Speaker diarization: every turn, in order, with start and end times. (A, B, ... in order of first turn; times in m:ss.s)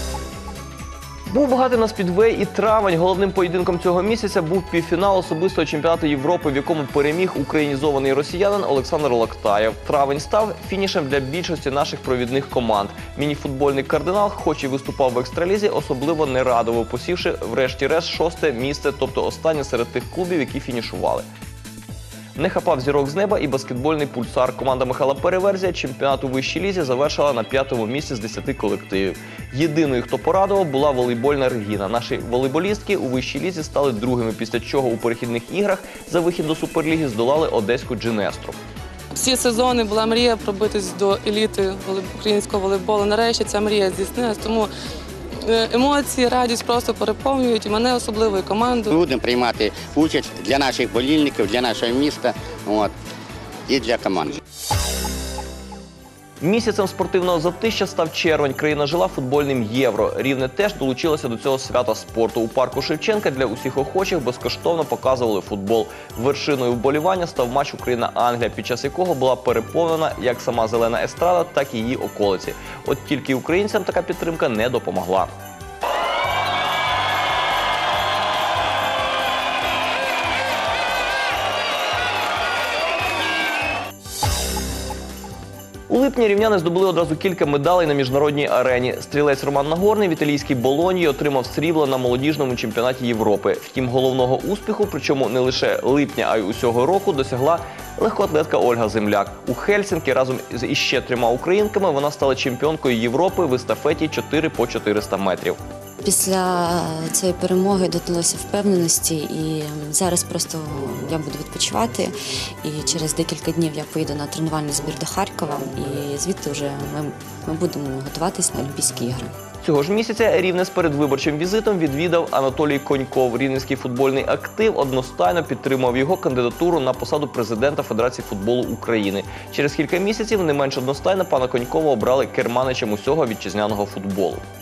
0:01.3-0:21.3 A
0:22.4-0:38.6 A
0:39.1-0:44.7 B
0:45.5-0:48.9 B
0:48.9-0:52.9 C
0:53.7-0:54.3 C
0:56.4-1:15.3 A
1:25.9-1:45.6 A
1:46.0-1:59.3 D
1:59.6-2:14.4 A